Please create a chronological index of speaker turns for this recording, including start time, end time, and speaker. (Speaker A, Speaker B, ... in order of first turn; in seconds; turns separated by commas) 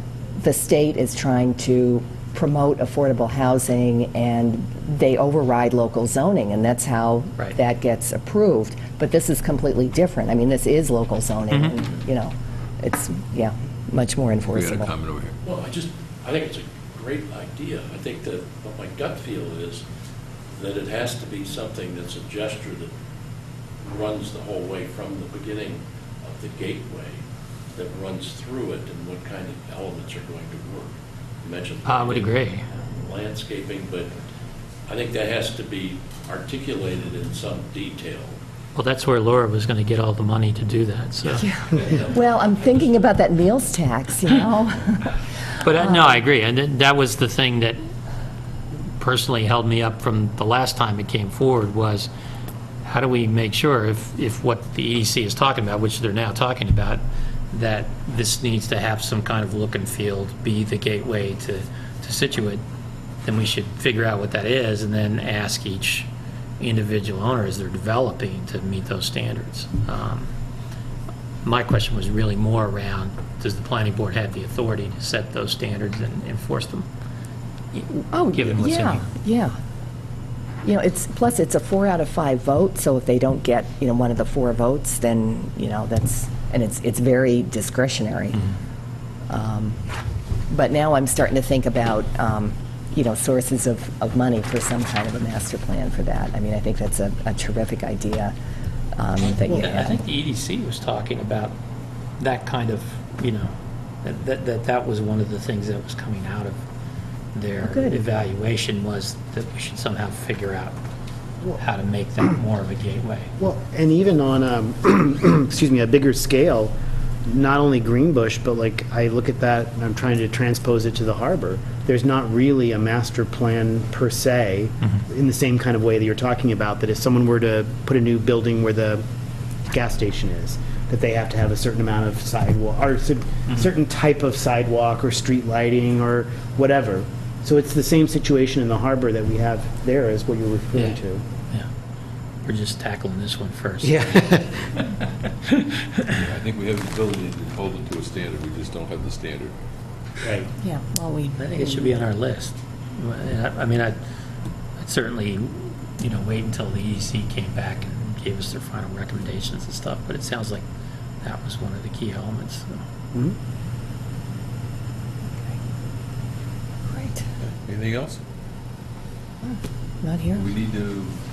Speaker A: 0.4-14.9, Speaker B: 11.5-11.8, Speaker C: 14.5-15.3, Speaker D: 15.4-19.8, Speaker D: 20.5-22.9, Speaker D: 23.8-27.2, Speaker D: 27.8-34.1, Speaker B: 31.8-32.7, Speaker D: 34.9-38.4, Speaker B: 38.7-41.5, Speaker A: 41.3-46.2, Speaker D: 41.7-42.0, Speaker B: 45.6-47.8, Speaker B: 48.9-52.1, Speaker B: 52.8-62.6, Speaker B: 63.2-70.3, Speaker B: 71.4-76.9, Speaker B: 77.7-79.1, Speaker A: 78.1-79.5, Speaker A: 80.6-88.5, Speaker A: 89.3-89.8, Speaker A: 90.5-98.3, Speaker A: 99.0-100.0, Speaker B: 99.4-101.5, Speaker B: 102.2-106.6, Speaker B: 107.3-110.8, Speaker A: 107.6-108.1, Speaker B: 111.6-113.3, Speaker E: 113.4-116.7, Speaker E: 117.2-129.0, Speaker E: 129.7-141.2, Speaker B: 142.4-144.1, Speaker E: 143.8-144.7, Speaker B: 145.3-146.1, Speaker C: 146.1-149.5, Speaker E: 150.2-150.5, Speaker A: 150.6-152.0, Speaker B: 151.4-154.0, Speaker B: 154.8-160.6, Speaker B: 161.2-162.8, Speaker A: 166.9-167.2, Speaker C: 167.6-168.2, Speaker A: 169.4-170.4, Speaker C: 170.3-171.2